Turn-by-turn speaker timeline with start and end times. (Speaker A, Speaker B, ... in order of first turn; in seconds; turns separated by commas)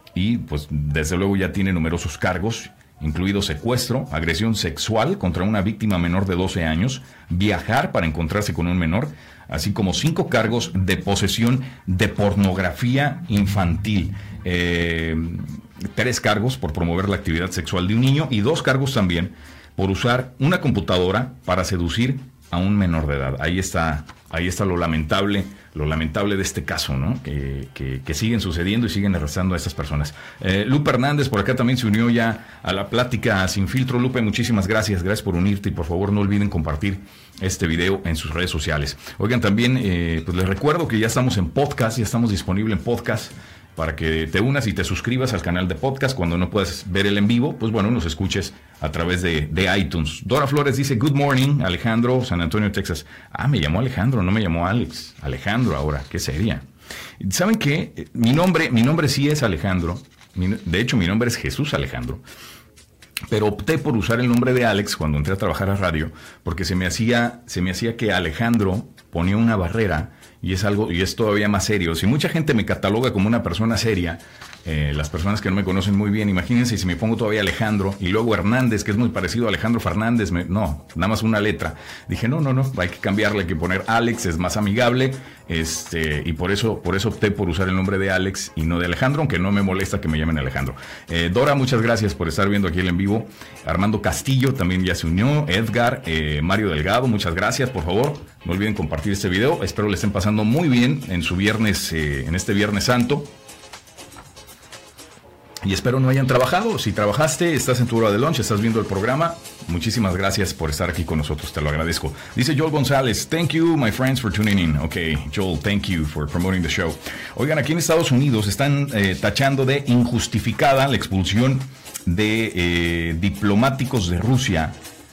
Speaker A: 0.1-56.6, Speaker A: 57.2-62.2, Speaker A: 63.3-103.3, Speaker A: 105.6-124.8